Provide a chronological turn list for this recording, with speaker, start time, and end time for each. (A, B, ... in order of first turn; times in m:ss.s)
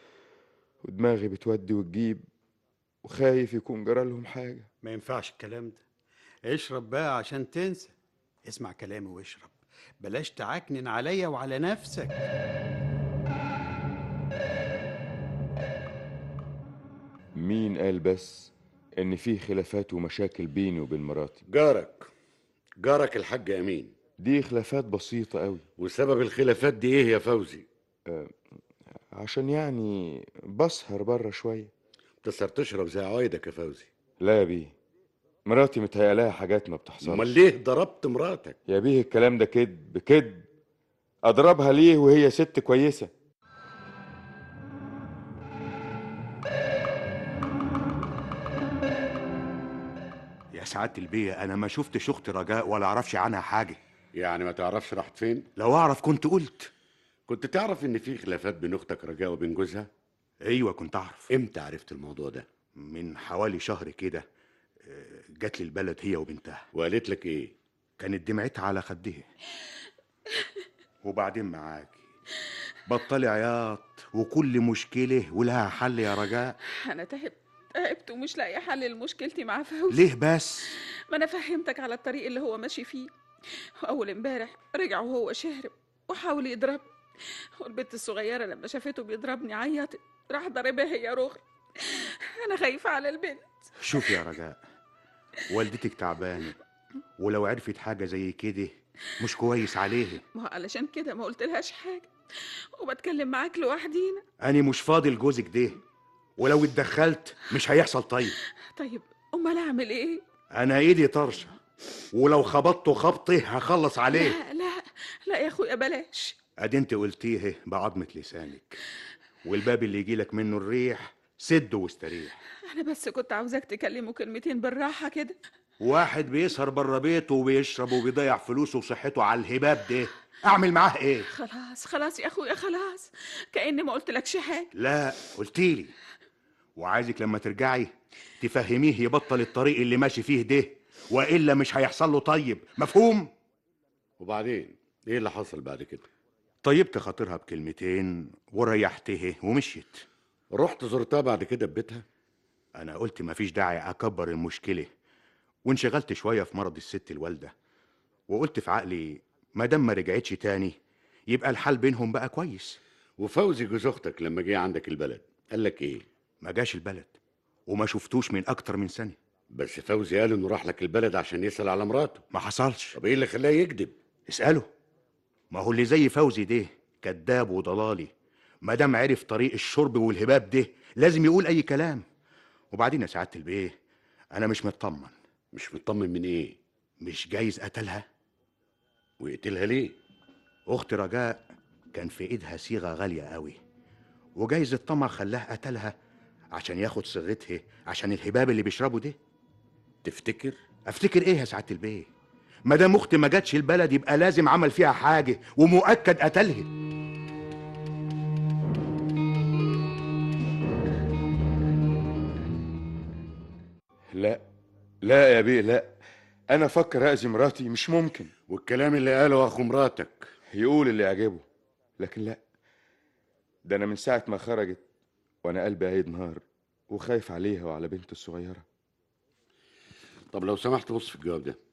0:00.8-0:02.2 A
0:03.0-0:04.7 A
0:04.8-0:05.8 B
0:06.5-0:07.9 B
0:08.4-0:12.2 B
0:17.4-0:21.4 A
0:21.5-0:22.1 C
0:22.8-0:23.9 C
0:24.2-0:25.6 A
0:25.8-0:27.6 C
0:28.1-0:28.4 A
0:29.1-0:31.7 A
0:32.2-0:33.9 C
0:34.2-0:34.7 A
0:35.4-0:37.3 A
0:37.0-0:38.6 C
0:38.7-0:40.5 A
0:41.2-0:43.1 A
0:50.5-0:53.8 D
0:54.1-0:55.4 C
0:55.6-0:56.7 D
0:57.3-0:59.9 C
1:00.4-1:01.3 D
1:01.3-1:02.4 C
1:02.8-1:04.2 D
1:04.8-1:06.6 D
1:06.7-1:07.5 C
1:08.0-1:09.2 D
1:11.0-1:12.0 D
1:12.9-1:16.6 D
1:16.7-1:20.0 E
1:19.9-1:20.8 D
1:21.1-1:23.1 E
1:23.8-1:33.5 E
1:33.8-1:34.6 D
1:35.5-1:36.6 D
1:37.2-1:40.2 D
1:40.3-1:44.2 E
1:44.4-1:45.8 D
1:46.4-1:48.4 D
1:48.7-1:50.2 E
1:50.5-1:51.6 D
1:52.1-1:54.4 D
1:54.1-1:56.4 E
1:56.6-1:58.8 D
1:59.4-2:02.4 D
2:02.6-2:05.4 E
2:05.8-2:11.3 D
2:11.3-2:14.7 E
2:14.7-2:15.9 D
2:16.8-2:23.3 D
2:24.2-2:26.0 C
2:26.6-2:30.0 D
2:30.5-2:32.0 C
2:32.8-2:34.9 D
2:35.6-2:37.5 D
2:38.3-2:40.7 D
2:41.3-2:42.8 D
2:43.2-2:46.0 C
2:46.4-2:47.1 D
2:47.7-2:49.2 D
2:49.5-2:52.2 C
2:52.3-2:53.0 D
2:52.9-2:53.9 C
2:54.3-2:54.7 D
2:55.5-2:58.1 D
2:58.6-3:02.0 D
3:02.7-3:03.7 D
3:04.3-3:05.1 D
3:05.5-3:06.6 C
3:07.0-3:08.0 D
3:09.2-3:10.0 C
3:10.7-3:11.4 D
3:11.9-3:13.6 D
3:14.4-3:15.9 D
3:16.5-3:19.2 D
3:20.0-3:20.6 C
3:20.9-3:22.1 D
3:22.6-3:26.7 D
3:34.1-3:34.4 A
3:35.0-3:35.9 A
3:36.5-3:38.3 A
3:38.5-3:40.3 C
3:40.5-3:41.4 A
3:42.0-3:42.4 A
3:43.6-3:44.8 A
3:45.4-3:48.6 A
3:50.3-3:51.6 C